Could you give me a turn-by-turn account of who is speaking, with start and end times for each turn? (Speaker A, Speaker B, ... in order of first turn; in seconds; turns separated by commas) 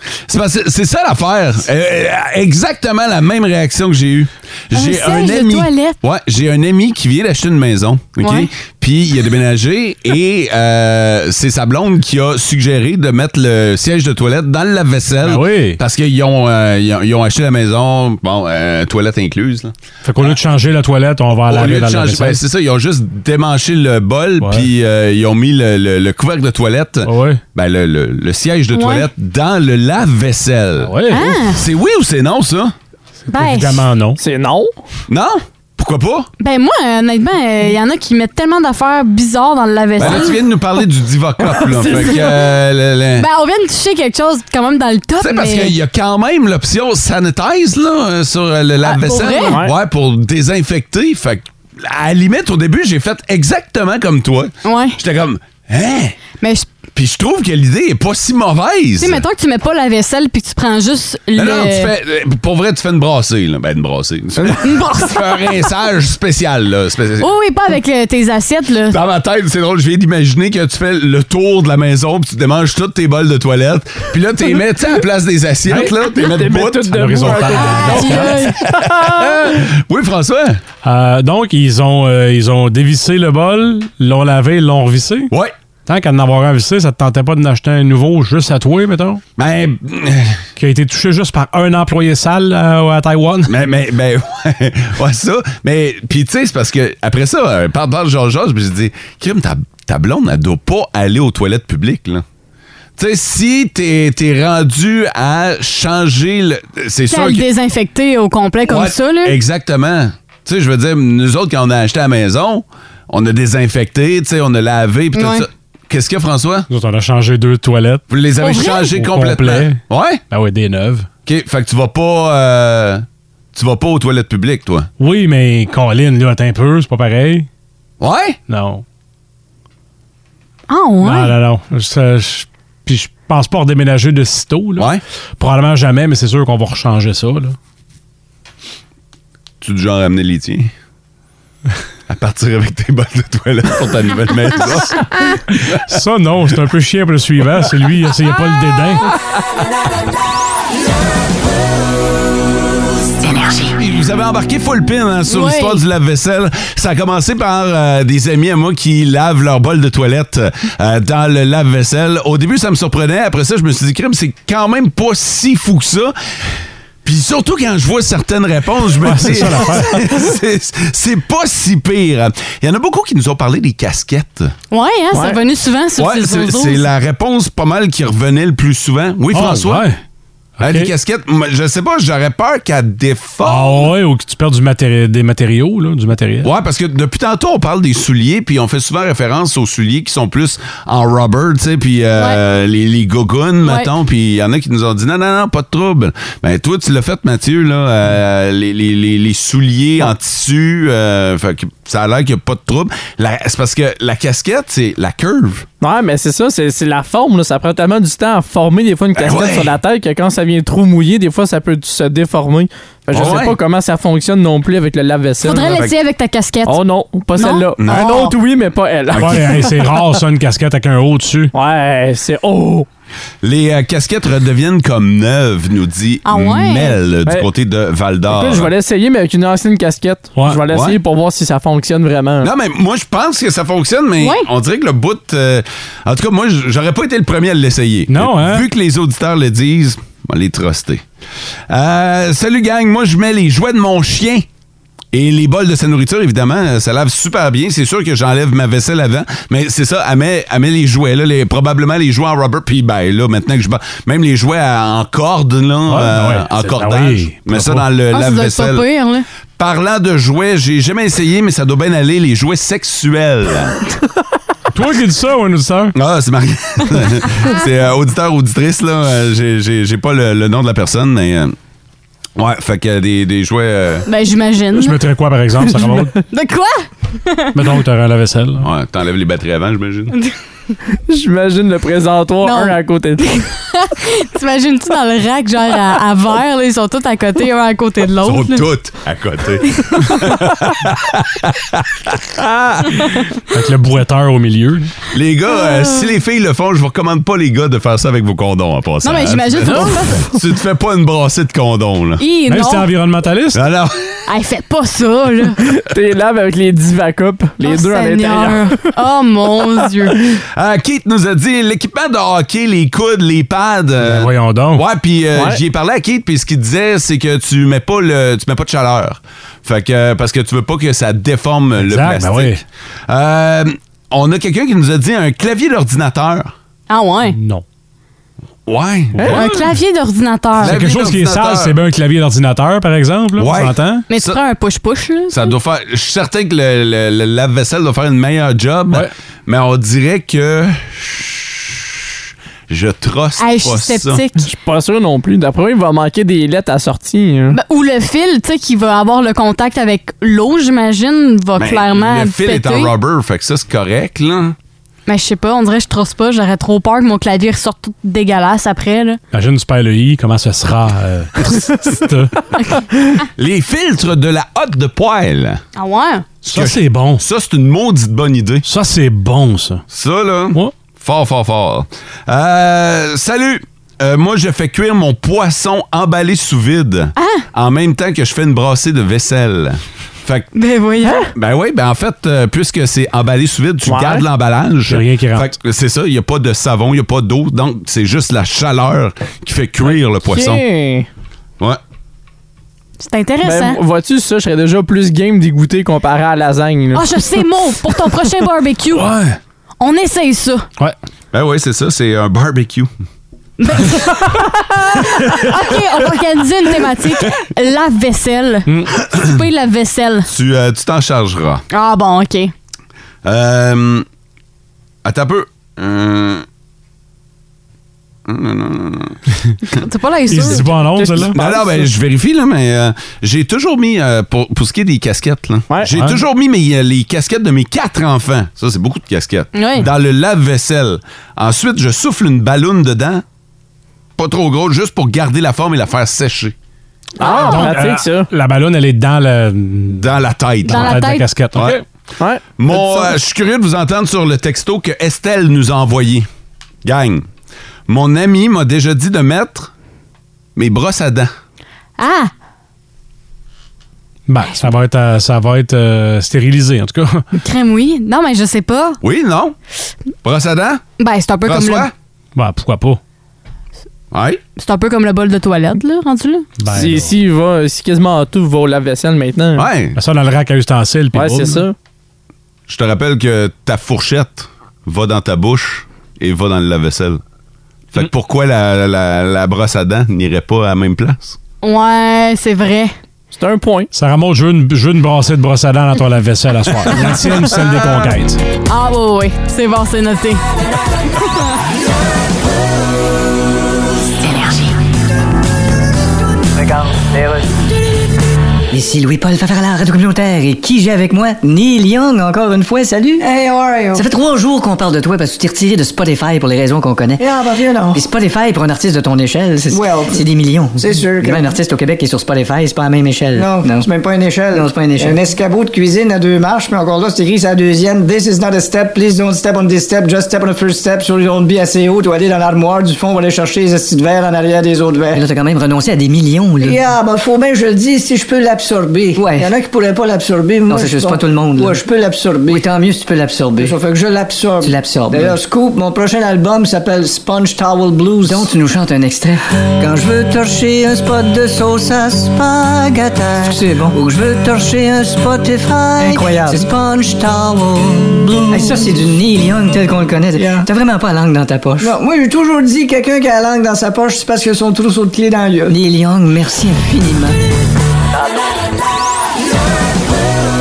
Speaker A: 0.3-20.4, Speaker B: 4.7-6.0, Speaker B: 8.2-8.5, Speaker C: 15.2-15.8, Speaker C: 20.0-22.4, Speaker A: 21.5-32.7, Speaker C: 24.4-24.7, Speaker C: 27.0-27.4, Speaker B: 28.7-29.1, Speaker C: 30.8-31.3, Speaker B: 31.1-31.6, Speaker C: 33.3-34.2, Speaker B: 33.3-33.9, Speaker D: 34.2-34.7, Speaker A: 35.1-36.3, Speaker B: 36.4-40.4, Speaker A: 40.0-43.3, Speaker D: 41.5-42.4, Speaker B: 43.2-45.8, Speaker A: 45.2-56.2, Speaker B: 48.8-49.6, Speaker D: 49.5-49.7, Speaker B: 54.6-55.0, Speaker B: 56.4-56.7, Speaker A: 56.9-59.2, Speaker B: 59.0-61.9, Speaker A: 61.3-67.3, Speaker B: 64.6-65.2, Speaker B: 67.2-69.0, Speaker A: 68.9-80.6, Speaker C: 75.7-75.9, Speaker D: 76.0-79.6, Speaker C: 76.9-78.4, Speaker B: 77.7-78.6, Speaker C: 80.8-85.3, Speaker A: 85.3-85.5, Speaker C: 85.9-89.2, Speaker A: 89.4-90.4, Speaker C: 90.6-93.5, Speaker A: 93.5-102.2, Speaker A: 103.0-107.4, Speaker B: 107.1-109.4, Speaker A: 108.6-116.7, Speaker B: 115.1-115.5, Speaker C: 116.7-118.0, Speaker A: 118.1-120.2, Speaker B: 118.4-118.9, Speaker C: 118.9-121.1, Speaker A: 121.2-124.9, Speaker C: 125.0-127.5, Speaker A: 128.0-128.4, Speaker C: 128.5-128.8, Speaker B: 130.7-131.3, Speaker C: 131.0-137.6, Speaker A: 134.8-135.0, Speaker A: 139.6-140.7, Speaker A: 142.1-146.0, Speaker C: 145.5-149.1, Speaker A: 153.5-166.2, Speaker B: 155.3-155.8, Speaker A: 167.0-174.5, Speaker C: 169.0-170.0, Speaker B: 174.7-176.8, Speaker D: 175.1-175.4, Speaker A: 176.0-179.9, Speaker C: 179.3-180.0, Speaker C: 180.6-180.9, Speaker A: 180.6-183.9, Speaker C: 183.4-186.5, Speaker A: 186.4-205.7, Speaker B: 193.6-193.9, Speaker D: 205.8-215.8, Speaker A: 209.1-209.7, Speaker A: 213.1-213.6, Speaker B: 215.4-216.8, Speaker A: 215.7-215.9, Speaker D: 216.7-220.0, Speaker B: 217.3-218.3, Speaker A: 217.8-218.2, Speaker A: 219.1-219.6, Speaker C: 219.2-221.5, Speaker D: 221.5-222.9, Speaker A: 223.4-228.7, Speaker B: 226.2-227.0, Speaker D: 228.3-232.5, Speaker C: 230.3-230.6, Speaker A: 230.7-231.0, Speaker A: 232.4-241.0, Speaker B: 234.2-234.5, Speaker C: 238.1-238.7, Speaker A: 241.7-244.4, Speaker A: 245.1-258.9, Speaker C: 255.9-257.9, Speaker B: 258.1-259.2, Speaker A: 259.6-263.8, Speaker C: 264.7-265.9, Speaker A: 265.9-271.6, Speaker A: 272.4-274.1, Speaker B: 274.1-275.0, Speaker C: 274.8-276.2, Speaker B: 276.3-277.5, Speaker C: 277.5-278.7, Speaker A: 278.6-280.1, Speaker D: 280.9-283.2, Speaker B: 282.4-288.7, Speaker A: 288.2-293.2, Speaker B: 289.8-290.2, Speaker C: 293.4-294.9, Speaker A: 295.1-302.2, Speaker B: 295.6-296.1, Speaker B: 299.0-300.3, Speaker B: 302.2-302.9, Speaker C: 302.5-303.6, Speaker A: 303.5-304.2, Speaker B: 304.3-305.6, Speaker D: 305.8-308.8, Speaker B: 307.6-310.2, Speaker A: 310.5-326.5, Speaker C: 314.0-314.8, Speaker D: 315.3-315.6, Speaker C: 321.8-322.6, Speaker B: 326.9-327.4, Speaker C: 327.3-327.6, Speaker A: 328.6-329.5, Speaker C: 329.1-329.7, Speaker D: 329.2-329.4, Speaker B: 329.3-330.8, Speaker A: 330.6-331.8, Speaker C: 330.6-334.1, Speaker A: 333.4-334.4, Speaker B: 334.1-335.5, Speaker A: 335.3-342.2, Speaker A: 342.7-344.2, Speaker B: 343.4-344.5, Speaker D: 344.4-347.6, Speaker B: 347.5-352.9, Speaker A: 351.6-354.6, Speaker B: 355.1-359.2, Speaker C: 359.3-362.4, Speaker A: 363.4-365.6, Speaker B: 365.8-366.2, Speaker A: 366.4-368.6, Speaker C: 366.5-367.2, Speaker C: 368.6-369.8, Speaker A: 369.9-380.5, Speaker B: 377.1-377.4, Speaker B: 380.5-381.3, Speaker D: 381.0-381.3, Speaker A: 381.3-390.6, Speaker D: 383.8-384.2, Speaker C: 384.9-385.5, Speaker D: 390.2-391.1, Speaker B: 393.0-393.8, Speaker D: 393.4-397.1, Speaker B: 396.9-399.1, Speaker B: 399.8-400.6, Speaker A: 401.3-402.9, Speaker B: 403.6-410.3, Speaker A: 405.3-405.8, Speaker C: 408.7-408.9, Speaker A: 409.1-409.4, Speaker A: 410.3-411.6, Speaker B: 411.7-412.5, Speaker A: 413.2-414.1, Speaker A: 415.0-416.4, Speaker A: 418.2-419.2, Speaker B: 419.6-420.7, Speaker C: 420.3-421.4, Speaker D: 420.5-421.9, Speaker A: 421.3-433.2, Speaker C: 425.8-426.2, Speaker B: 429.5-429.9, Speaker A: 434.2-436.5, Speaker D: 437.2-438.3, Speaker B: 437.2-437.7, Speaker C: 437.2-440.1, Speaker A: 439.9-441.8, Speaker B: 440.6-441.2, Speaker C: 440.7-441.8, Speaker D: 442.2-443.1, Speaker A: 442.6-446.3, Speaker A: 446.8-447.3, Speaker A: 447.9-449.7, Speaker A: 450.6-451.3, Speaker B: 452.0-452.3, Speaker C: 454.3-457.2, Speaker B: 457.4-459.0, Speaker A: 459.0-459.6, Speaker A: 460.2-460.8, Speaker B: 461.0-461.9, Speaker A: 461.4-461.9, Speaker C: 462.3-463.0, Speaker A: 464.1-464.4, Speaker B: 464.6-466.5, Speaker C: 466.6-467.1, Speaker D: 466.7-469.7, Speaker A: 469.5-470.0, Speaker C: 469.9-471.6, Speaker D: 471.1-471.7, Speaker A: 472.7-477.2, Speaker A: 477.9-481.4, Speaker B: 481.6-482.9, Speaker D: 483.3-483.9, Speaker C: 483.9-488.4, Speaker B: 488.7-490.4, Speaker E: 496.6-497.5, Speaker F: 498.7-503.3, Speaker E: 503.2-504.1, Speaker F: 503.9-507.3, Speaker E: 507.2-508.1, Speaker F: 507.9-513.9, Speaker E: 509.7-510.2, Speaker E: 510.8-511.6, Speaker E: 513.3-525.2, Speaker F: 514.5-515.2, Speaker F: 525.1-526.8, Speaker E: 526.6-532.6, Speaker F: 529.1-529.5, Speaker F: 530.7-531.8, Speaker F: 532.5-533.8, Speaker E: 533.6-538.5, Speaker F: 534.6-535.4, Speaker F: 538.2-552.0, Speaker E: 543.4-544.0, Speaker E: 546.0-546.7, Speaker E: 548.4-549.1, Speaker E: 550.3-550.7, Speaker E: 551.8-555.8, Speaker F: 555.7-557.3